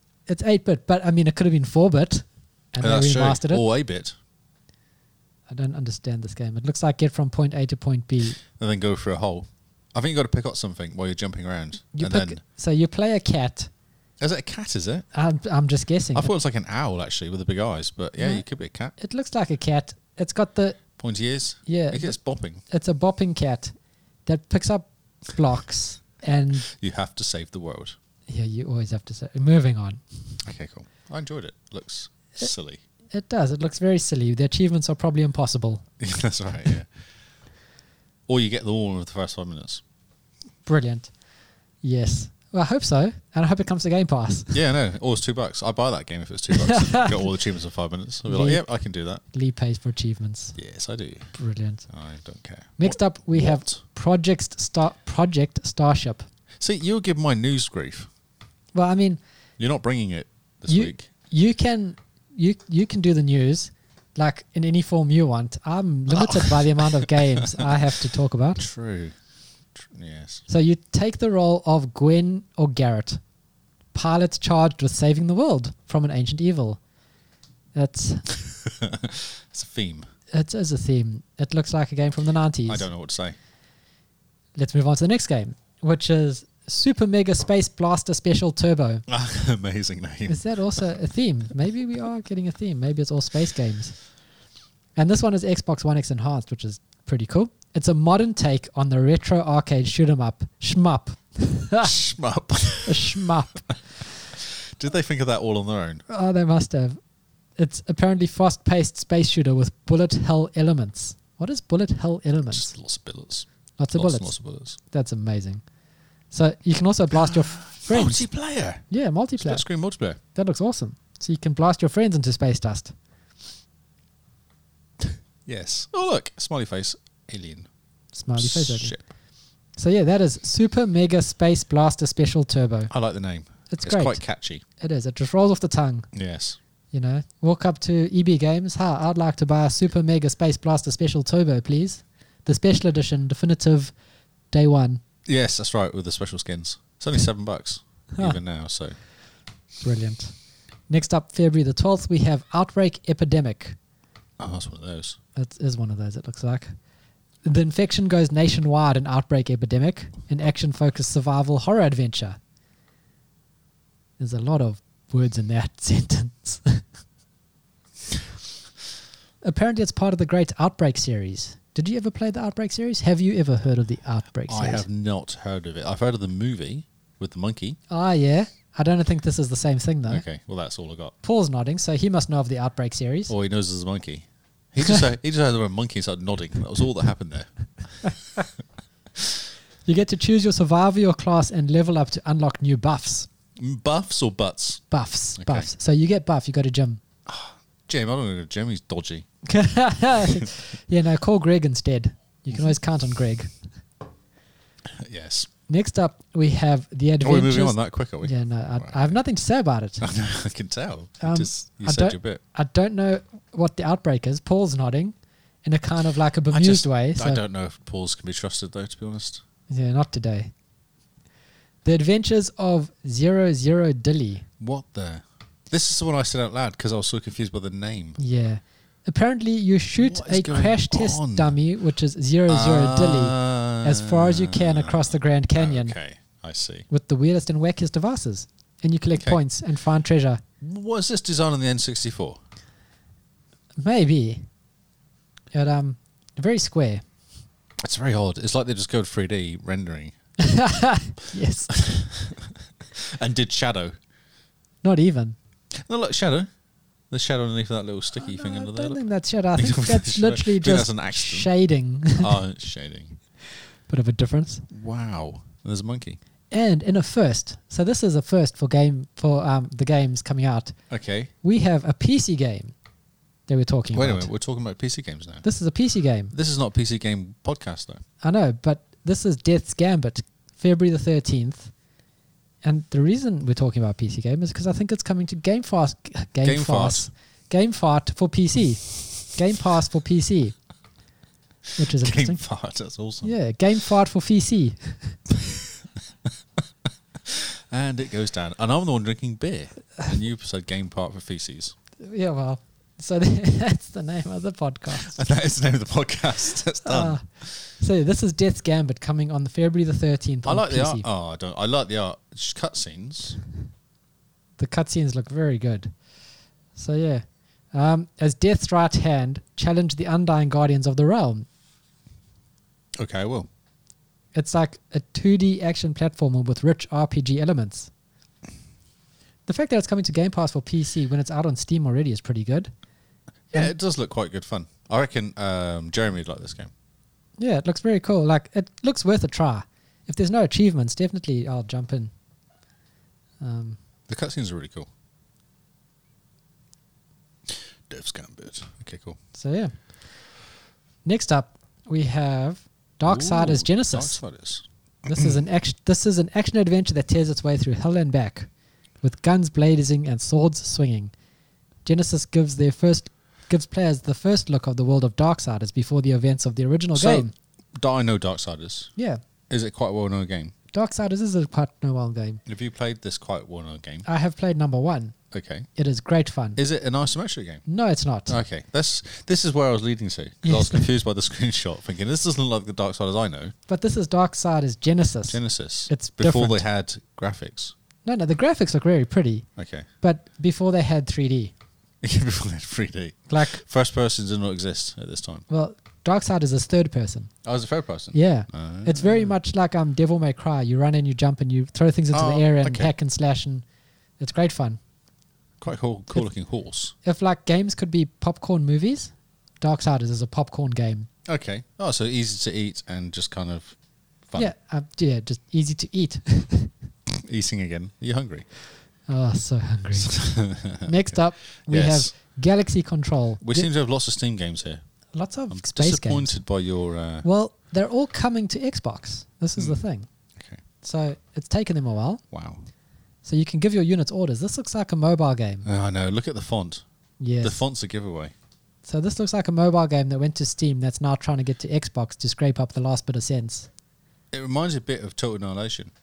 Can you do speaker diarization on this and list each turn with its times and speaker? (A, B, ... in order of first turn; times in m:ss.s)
0:00.3-0:03.6 A
0:02.8-0:04.2 B
0:05.5-0:08.4 A
0:08.4-0:12.4 B
0:12.0-0:13.7 A
0:14.2-0:15.1 B
0:15.1-0:16.3 A
0:16.2-0:18.9 B
0:18.2-0:18.4 A
0:19.0-0:20.8 A
0:21.0-0:22.6 B
0:21.7-0:23.7 A
0:24.3-0:26.7 A
0:26.7-0:28.0 B
0:28.3-0:30.0 A
0:30.4-0:32.8 B
0:33.1-0:35.8 A
0:36.0-0:36.9 B
0:38.3-0:39.8 B
0:40.7-0:41.1 A
0:41.8-0:44.6 A
0:44.5-0:49.2 B
0:46.5-0:47.2 A
0:48.3-0:48.6 A
0:49.2-0:50.6 A
0:50.6-0:51.3 B
0:51.4-0:51.9 A
0:51.9-0:53.8 B
0:52.8-0:56.3 A
0:56.6-0:58.1 B
0:58.7-0:59.2 A
0:59.6-1:01.1 B
1:00.7-1:08.7 A
1:06.1-1:07.7 B
1:08.6-1:09.1 B
1:09.8-1:10.4 B
1:10.5-1:13.2 A
1:13.9-1:16.8 A
1:17.7-1:18.3 A
1:18.5-1:20.1 B
1:20.3-1:22.9 A
1:22.7-1:23.4 B
1:24.6-1:29.0 A
1:29.1-1:30.4 B
1:30.3-1:34.0 A
1:35.0-1:41.9 A
1:41.8-1:43.2 B
1:42.8-1:43.7 A
1:44.4-1:46.0 B
1:46.1-1:47.0 A
1:47.6-1:52.7 A
1:52.5-1:54.8 B
1:53.8-1:55.6 A
1:56.3-1:58.3 A
1:57.1-1:58.8 B
1:58.9-1:59.7 A
1:59.4-2:00.2 B
2:00.3-2:02.9 A
2:05.0-2:07.7 B
2:08.1-2:09.0 A
2:08.4-2:09.0 B
2:09.8-2:12.9 A
2:12.9-2:14.6 B
2:13.7-2:14.2 A
2:14.8-2:16.1 A
2:16.1-2:16.6 B
2:16.9-2:23.9 A
2:24.5-2:25.0 A
2:25.3-2:29.0 B
2:29.8-2:30.4 A
2:30.9-2:33.8 A
2:34.4-2:35.2 B
2:35.4-2:36.8 A
2:37.4-2:42.4 A
2:44.2-2:46.8 A
2:49.4-2:54.8 A
2:54.5-2:57.8 B
2:57.9-3:00.2 A
3:00.1-3:01.2 B
3:01.2-3:03.3 A
3:03.3-3:08.1 B
3:09.9-3:13.3 A
3:13.6-3:14.8 B
3:14.9-3:17.0 A
3:15.4-3:15.7 B
3:17.3-3:19.3 B
3:19.5-3:23.5 A
3:24.9-3:25.5 B
3:25.7-3:30.0 A
3:27.2-3:29.2 B
3:30.0-3:32.4 B
3:31.2-3:37.4 A
3:36.5-3:39.4 B
3:39.7-3:40.5 A
3:41.8-3:44.5 A
3:44.6-3:48.2 B
3:48.2-3:56.0 A
3:50.0-3:51.6 B
3:52.5-3:56.9 B
3:56.9-4:00.4 A
4:00.6-4:02.4 B
4:03.8-4:04.4 A
4:05.5-4:07.0 A
4:07.8-4:10.1 B
4:10.4-4:11.8 A
4:11.8-4:14.0 B
4:14.8-4:15.4 A
4:15.8-4:16.5 B
4:17.1-4:19.0 B
4:18.2-4:22.3 A
4:19.6-4:21.5 B
4:22.1-4:23.2 B
4:23.9-4:24.7 A
4:24.7-4:26.2 B
4:26.5-4:30.8 A
4:30.9-4:31.3 B
4:31.4-4:32.7 A
4:33.5-4:34.3 A
4:33.9-4:35.4 B
4:35.4-4:36.3 A
4:36.3-4:38.0 B
4:38.2-4:41.7 A
4:42.6-4:50.6 A
4:46.4-4:47.1 B
4:51.8-4:52.4 A
4:51.9-4:53.4 B
4:53.2-4:55.2 A
4:55.3-4:55.7 B
4:57.2-5:01.7 B
5:02.0-5:05.2 A
5:05.0-5:07.5 B
5:06.8-5:11.0 A
5:10.4-5:13.4 B
5:14.6-5:15.9 A
5:16.8-5:21.5 A
5:23.0-5:23.5 B
5:24.4-5:27.9 A
5:29.5-5:32.7 A
5:33.5-5:36.7 B
5:37.4-5:42.1 A
5:43.4-5:43.8 A
5:44.1-5:44.9 B
5:47.5-5:49.2 B
5:49.4-5:49.7 A
5:51.0-5:54.2 A
5:53.0-5:55.4 B
5:55.1-5:58.5 A
5:59.0-6:01.1 A
6:01.8-6:07.3 A
6:07.0-6:08.9 B
6:09.5-6:10.5 B
6:10.7-6:12.4 A
6:12.5-6:14.0 B
6:14.0-6:15.2 A
6:15.3-6:15.7 B
6:15.8-6:16.6 A
6:16.6-6:17.6 B
6:17.7-6:18.4 A
6:18.3-6:23.5 B
6:20.4-6:20.8 A
6:23.7-6:26.6 A
6:25.3-6:27.7 B
6:28.0-6:29.5 A
6:29.6-6:29.9 B
6:30.0-6:31.5 A
6:32.0-6:35.4 B
6:33.3-6:33.6 A
6:35.5-6:37.3 A
6:37.4-6:39.4 B
6:38.1-6:43.6 A
6:42.1-6:42.9 B
6:44.2-6:44.8 A
6:45.6-6:46.9 B
6:47.0-6:51.1 A
6:51.3-6:53.8 B
6:54.4-6:56.7 A
6:57.2-6:58.5 B
6:59.1-7:03.7 A
7:00.0-7:02.1 B
7:03.4-7:04.8 B
7:05.1-7:06.4 A
7:05.5-7:07.2 B
7:07.2-7:10.1 A
7:10.4-7:10.6 B
7:10.8-7:12.2 A
7:12.3-7:12.6 B
7:13.2-7:15.7 A
7:15.6-7:16.8 B
7:17.2-7:17.6 A
7:17.4-7:18.3 B
7:18.8-7:23.7 A
7:24.3-7:25.9 B